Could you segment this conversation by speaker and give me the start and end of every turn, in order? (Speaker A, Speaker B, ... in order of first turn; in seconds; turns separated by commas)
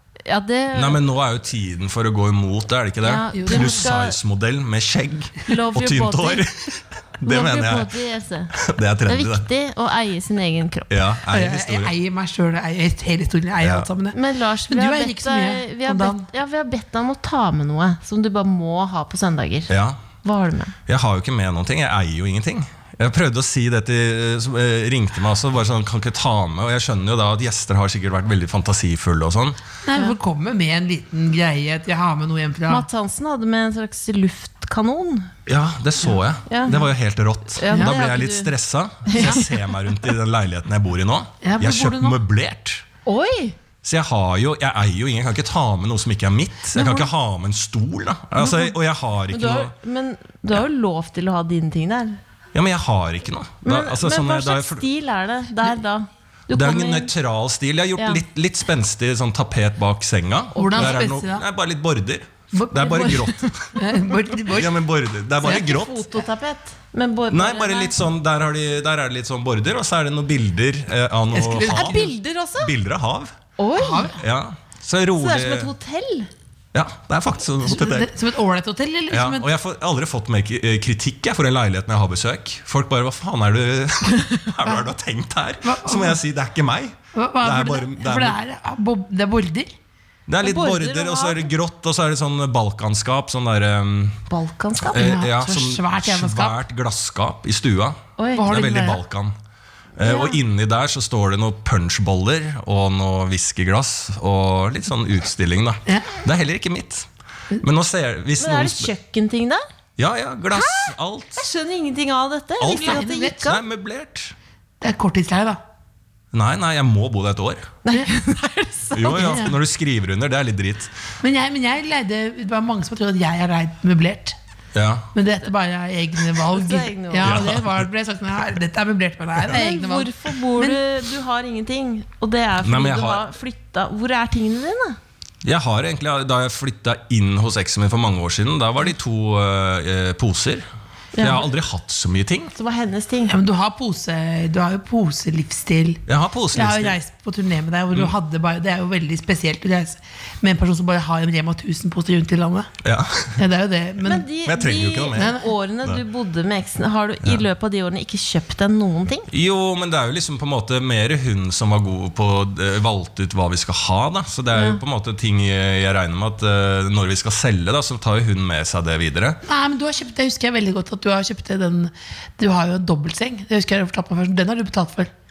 Speaker A: 0.2-1.0, Speaker B: 0.7-7.9, Speaker A: 3.0-4.2, Speaker C: 3.3-3.9, Speaker A: 5.5-6.5, Speaker A: 7.2-8.5, Speaker B: 8.6-9.4, Speaker A: 9.1-10.9, Speaker B: 10.9-11.9, Speaker C: 11.3-14.2, Speaker B: 13.6-13.9, Speaker A: 14.1-19.7, Speaker C: 14.7-16.3, Speaker B: 19.7-20.0, Speaker A: 20.2-20.7, Speaker B: 20.9-29.6, Speaker C: 29.8-32.9, Speaker A: 32.7-35.3, Speaker B: 35.5-42.8, Speaker A: 36.5-36.8, Speaker A: 37.5-38.5, Speaker A: 39.0-39.5, Speaker C: 39.1-39.4, Speaker C: 41.4-42.2, Speaker A: 43.0-43.5, Speaker B: 43.8-49.7, Speaker C: 46.8-47.1, Speaker A: 46.8-47.0, Speaker C: 48.4-48.7, Speaker A: 49.3-52.2, Speaker B: 52.5-54.8, Speaker A: 53.6-57.1, Speaker B: 56.5-63.7, Speaker A: 58.0-58.2, Speaker A: 60.5-61.0, Speaker C: 60.6-61.5, Speaker A: 62.6-64.0, Speaker C: 62.6-63.2, Speaker C: 63.8-64.8, Speaker B: 64.5-66.0, Speaker A: 65.4-68.0, Speaker B: 67.3-73.3, Speaker C: 71.3-72.1, Speaker A: 71.6-72.7, Speaker A: 73.6-74.1, Speaker C: 73.8-74.2, Speaker B: 74.2-75.7, Speaker A: 75.2-76.3, Speaker B: 76.7-78.1, Speaker C: 77.6-79.5, Speaker B: 79.1-88.4, Speaker C: 85.6-86.2, Speaker C: 87.1-89.7, Speaker B: 90.3-94.2, Speaker A: 90.4-91.5, Speaker A: 94.3-95.2, Speaker B: 94.9-99.3, Speaker C: 94.9-96.6, Speaker A: 98.2-98.5, Speaker C: 98.3-99.0, Speaker B: 100.0-107.1, Speaker A: 100.0-100.4, Speaker B: 107.6-108.9, Speaker A: 108.4-109.6, Speaker B: 110.0-111.4, Speaker A: 110.5-113.6, Speaker B: 112.6-114.3, Speaker C: 112.7-113.4, Speaker C: 114.8-115.6, Speaker B: 116.3-117.7, Speaker A: 117.8-119.5, Speaker B: 118.9-121.0, Speaker C: 119.1-119.6, Speaker C: 121.2-124.3, Speaker B: 124.7-125.1, Speaker C: 125.1-130.8, Speaker A: 126.5-127.4, Speaker B: 127.2-127.8, Speaker A: 129.5-135.0, Speaker B: 132.6-133.2, Speaker B: 135.4-140.7, Speaker A: 141.1-141.4, Speaker B: 141.2-142.5, Speaker A: 142.5-143.3, Speaker C: 143.3-152.7, Speaker B: 146.1-146.9, Speaker B: 152.8-153.4, Speaker C: 153.4-154.2, Speaker A: 154.0-159.3, Speaker B: 154.4-156.0, Speaker C: 155.1-155.5, Speaker B: 159.3-169.4, Speaker A: 164.5-164.8, Speaker C: 169.4-175.1